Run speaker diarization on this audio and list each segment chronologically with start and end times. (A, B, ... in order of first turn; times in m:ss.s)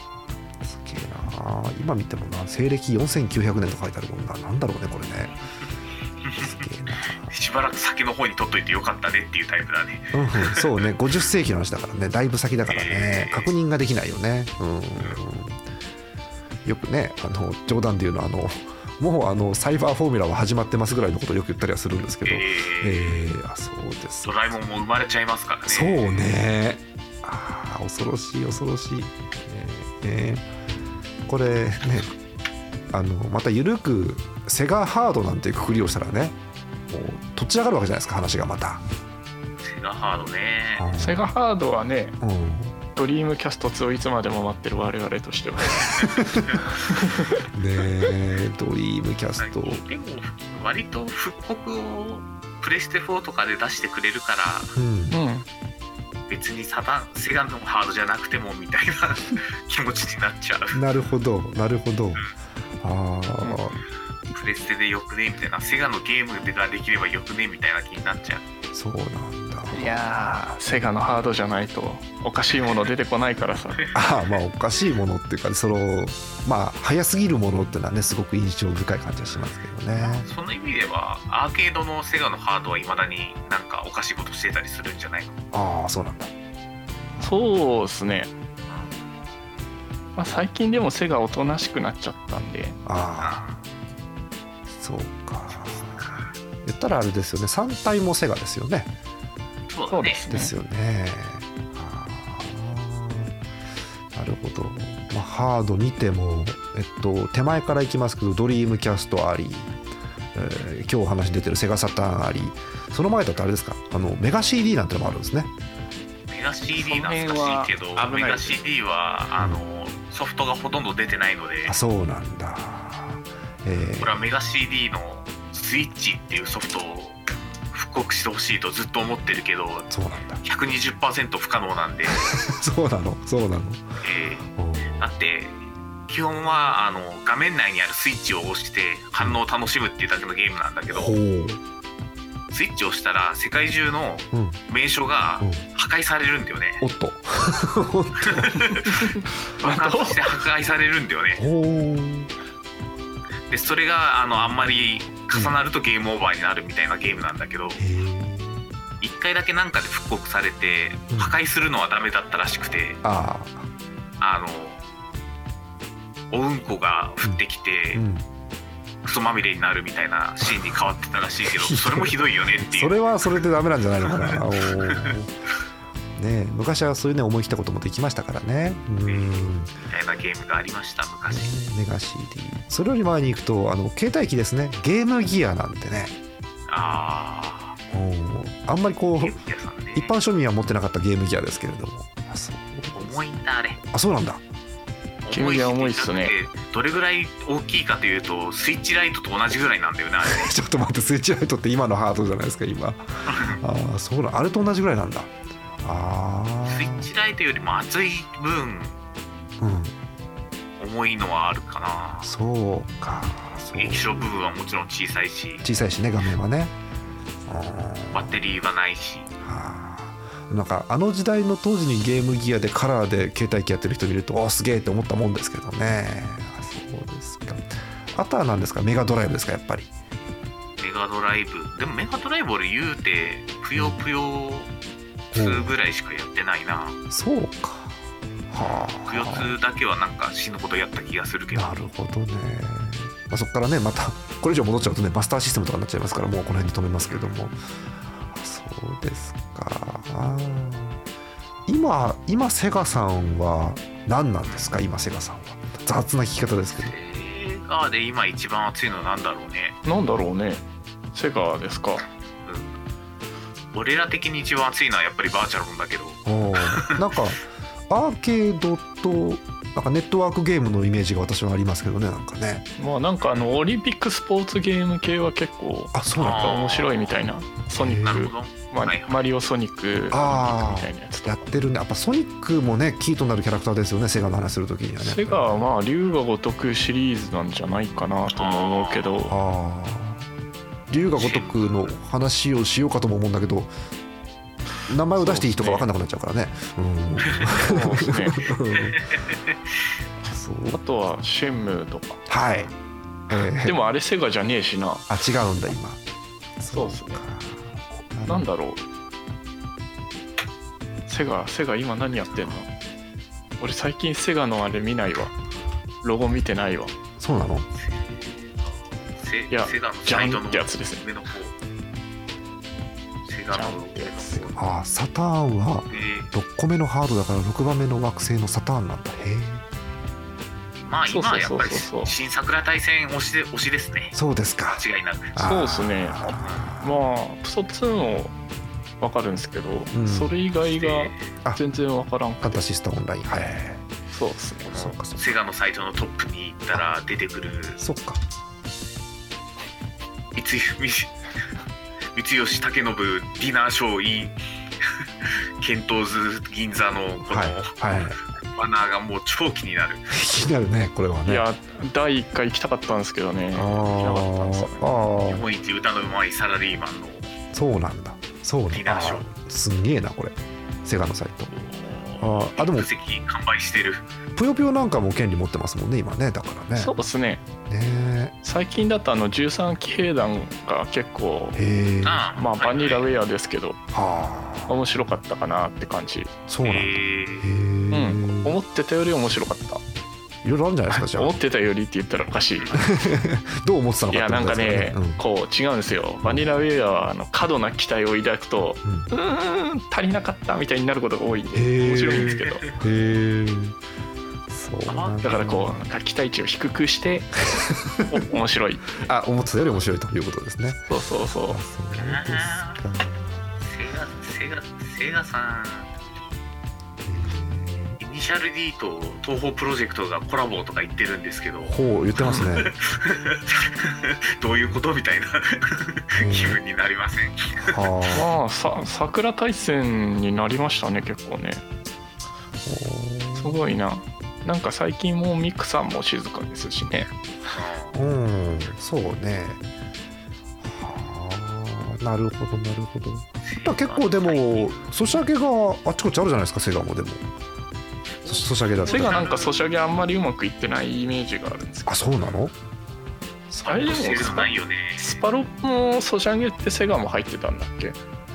0:00.6-0:05.4 A
0:06.2-0:06.5 B
0:06.4-0:07.3 A
0:07.2-0:10.6 B
0:10.1-0:15.6 A
0:12.7-0:13.5 B
0:16.6-0:24.3 A
0:22.2-0:23.3 B
0:24.2-0:26.2 B
0:25.7-0:30.4 A
0:31.3-0:32.1 A
0:32.9-0:36.4 A
0:36.9-0:38.8 A
0:39.6-0:40.9 B
0:40.8-0:41.3 A
0:41.0-0:42.2 C
0:42.2-0:42.8 A
0:43.0-0:46.2 C
0:46.1-0:46.5 A
0:46.9-0:47.4 C
0:47.5-0:49.8 A
0:49.4-0:54.7 B
0:54.8-0:55.2 A
0:55.1-0:55.4 C
0:56.3-1:00.8 B
1:00.7-1:02.3 A
1:02.8-1:03.8 A
1:04.3-1:08.4 B
1:08.7-1:10.0 A
1:09.7-1:13.8 C
1:13.9-1:20.3 A
1:20.0-1:25.4 B
1:25.5-1:26.3 A
1:27.2-1:28.3 C
1:30.2-1:32.8 C
1:32.8-1:33.4 A
1:33.2-1:33.6 B
1:34.7-1:38.9 A
1:35.6-1:36.3 B
1:39.7-1:40.2 B
1:39.9-1:40.5 C
1:40.3-1:43.3 A
1:44.1-1:49.7 A
1:50.3-1:55.5 A
1:56.3-2:01.8 B
1:56.7-1:58.6 C
2:01.6-2:04.2 A
2:04.0-2:07.2 B
2:07.7-2:09.9 B
2:09.9-2:10.4 A
2:10.4-2:12.2 B
2:12.1-2:13.8 A
2:14.0-2:14.4 B
2:14.5-2:15.0 A
2:15.0-2:21.1 B
2:20.9-2:21.6 A
2:22.5-2:26.8 B
2:24.3-2:24.6 A
2:26.8-2:28.8 A
2:28.2-2:29.0 B
2:28.9-2:30.2 C
2:29.6-2:31.4 B
2:31.4-2:32.3 A
2:33.5-2:37.8 B
2:35.3-2:35.6 A
2:37.8-2:38.6 A
2:39.0-2:43.0 B
2:41.1-2:41.4 A
2:43.0-2:43.7 A
2:44.2-2:44.8 B
2:46.3-2:48.0 B
2:47.9-2:48.2 A
2:49.0-2:53.4 B
2:51.5-2:55.3 A
2:54.0-2:55.2 B
2:56.2-2:59.7 A
2:59.0-3:01.5 B
3:01.3-3:06.1 A
3:06.7-3:07.8 B
3:07.9-3:09.4 A
3:09.2-3:10.2 B
3:10.0-3:13.2 A
3:12.9-3:13.8 B
3:13.9-3:14.4 A
3:15.2-3:20.5 B
3:15.3-3:16.3 C
3:20.2-3:27.1 A
3:23.2-3:23.6 B
3:26.6-3:29.0 B
3:29.6-3:29.9 A
3:30.8-3:32.3 B
3:32.2-3:34.3 A
3:33.7-3:35.6 B
3:35.6-3:36.7 A
3:37.5-3:38.4 A
3:38.1-3:39.3 B
3:39.4-3:49.9 A
3:50.8-3:54.7 B
3:53.8-3:54.0 A
3:55.3-3:57.0 B
3:55.3-3:55.7 A
3:57.1-3:58.0 A
3:58.5-3:59.5 A
3:59.0-4:01.8 B
4:01.5-4:07.6 A
4:07.1-4:07.4 B
4:08.3-4:11.0 A
4:11.7-4:16.9 A
4:16.8-4:19.8 B
4:19.8-4:22.0 C
4:22.4-4:22.8 B
4:23.7-4:26.9 B
4:26.2-4:32.7 A
4:32.8-4:41.5 C
4:33.2-4:33.5 B
4:35.9-4:36.6 A
4:36.2-4:37.0 B
4:37.7-4:38.3 A
4:37.9-4:39.2 B
4:40.1-4:45.6 A
4:45.0-4:49.3 C
4:48.4-4:49.3 B
4:49.3-4:50.3 A
4:50.9-4:53.7 A
4:51.1-4:51.9 B
4:54.9-4:59.1 A
4:55.1-4:55.9 C
4:57.6-4:58.5 C
4:58.7-4:59.5 B
5:00.2-5:00.8 A
5:00.7-5:02.2 C
5:02.3-5:02.7 A
5:03.3-5:03.8 A
5:03.6-5:05.1 C
5:05.1-5:06.0 A
5:06.6-5:08.5 A
5:06.7-5:07.2 C
5:08.3-5:08.8 C
5:11.1-5:12.7 C
5:13.6-5:15.3 C
5:16.0-5:16.9 C
5:17.2-5:17.7 A
5:17.7-5:21.5 B
5:19.5-5:21.0 C
5:23.2-5:24.6 B
5:23.5-5:24.4 C
5:24.6-5:29.6 A
5:25.9-5:26.3 B
5:30.8-5:34.2 B
5:31.1-5:32.1 C
5:34.1-5:37.0 A
5:34.7-5:35.4 B
5:35.4-5:38.4 C
5:39.0-5:42.6 C
5:39.9-5:40.3 A
5:40.6-5:41.2 B
5:42.4-5:43.8 A
5:44.1-5:44.7 C
5:44.7-5:45.4 A
5:44.7-5:47.8 B
5:47.8-5:48.2 A
5:50.4-5:51.1 B
5:52.1-6:00.2 B
5:57.3-5:58.2 A
6:00.1-6:01.5 A
6:01.2-6:04.9 C
6:03.5-6:05.5 A
6:05.2-6:07.3 B
6:07.5-6:11.5 A
6:08.7-6:09.3 B
6:11.5-6:14.1 B
6:12.2-6:12.9 A
6:14.3-6:16.9 A
6:16.8-6:17.4 C
6:17.7-6:18.3 A
6:18.4-6:21.6 C
6:21.5-6:22.2 A
6:22.0-6:23.0 B
6:22.4-6:23.8 C
6:23.9-6:24.8 A
6:24.7-6:26.3 C
6:26.5-6:28.6 A
6:26.6-6:27.5 B
6:27.9-6:29.8 C
6:30.4-6:31.3 A
6:30.9-6:32.9 C
6:32.7-6:35.2 A
6:34.1-6:42.7 C
6:36.2-6:36.5 A
6:38.8-6:39.1 A
6:41.5-6:43.8 A
6:42.0-6:42.7 B
6:44.5-6:45.7 A
6:44.9-6:45.5 B
6:45.2-6:47.4 C
6:47.4-6:48.2 A
6:48.1-6:49.1 C
6:49.0-6:50.8 A
6:50.9-6:51.6 C
6:51.5-6:53.7 A
6:51.9-6:52.8 B
6:53.6-6:55.9 B
6:57.0-6:58.0 A
6:58.0-7:07.8 B
7:01.7-7:02.7 A
7:06.2-7:06.6 A
7:07.6-7:08.3 A
7:08.1-7:11.6 C
7:12.6-7:13.6 A
7:13.4-7:17.1 C
7:17.5-7:18.0 B
7:17.9-7:19.6 A
7:20.6-7:27.3 A
7:23.4-7:24.9 B
7:28.2-7:29.6 B
7:28.2-7:29.3 A
7:28.8-7:32.1 C
7:31.8-7:32.6 A
7:33.5-7:34.4 A
7:33.6-7:38.0 C
7:33.7-7:35.2 B